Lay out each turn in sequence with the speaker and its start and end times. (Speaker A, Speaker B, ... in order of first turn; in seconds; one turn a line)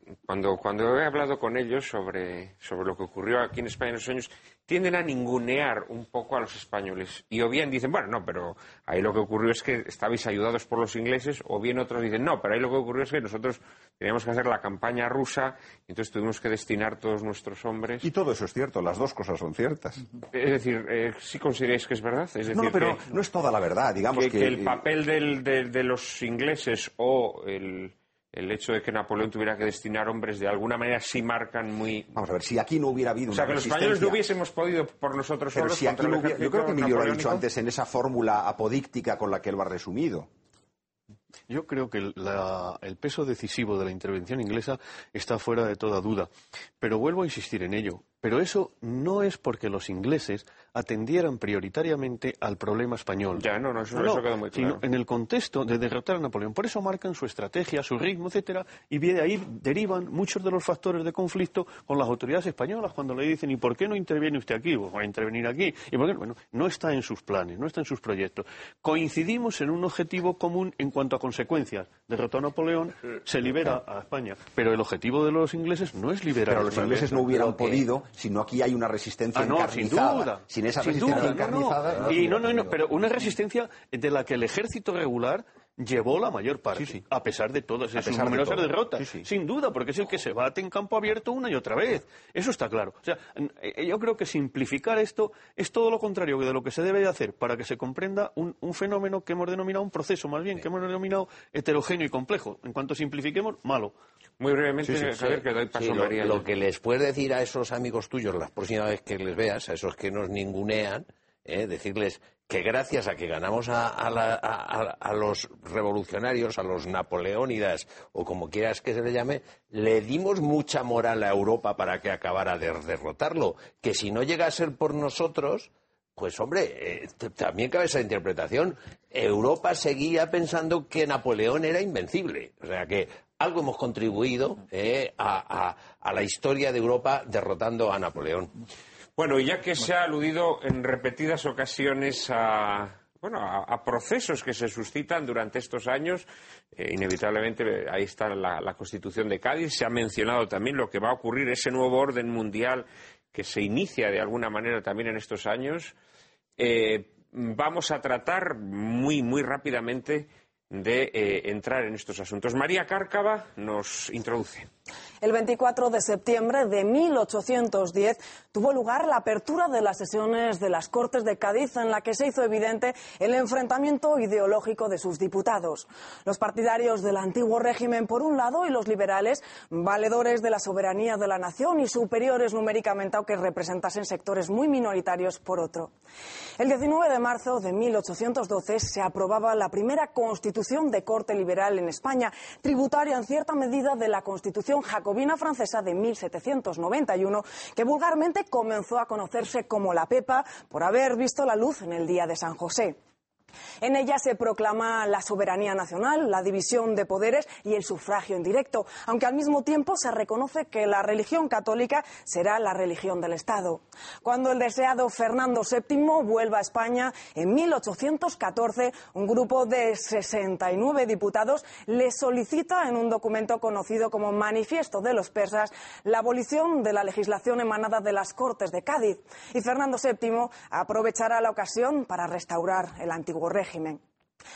Speaker A: 0.2-18.1
Speaker B: 18.0-20.0
Speaker A: 20.3-23.1
Speaker B: 22.5-24.8
Speaker A: 24.1-32.1
Speaker B: 32.1-34.2
Speaker A: 33.3-37.4
Speaker B: 35.5-40.3
Speaker C: 41.5-77.8
Speaker A: 53.4-54.8
Speaker B: 76.5-83.0
Speaker C: 79.3-103.9
Speaker B: 86.8-87.0
Speaker B: 87.9-89.2
Speaker A: 104.4-106.4
Speaker D: 104.8-138.5
Speaker A: 139.2-155.9
Speaker A: 156.6-164.7
Speaker E: 165.2-185.9
Speaker E: 186.6-202.9
Speaker E: 203.8-234.0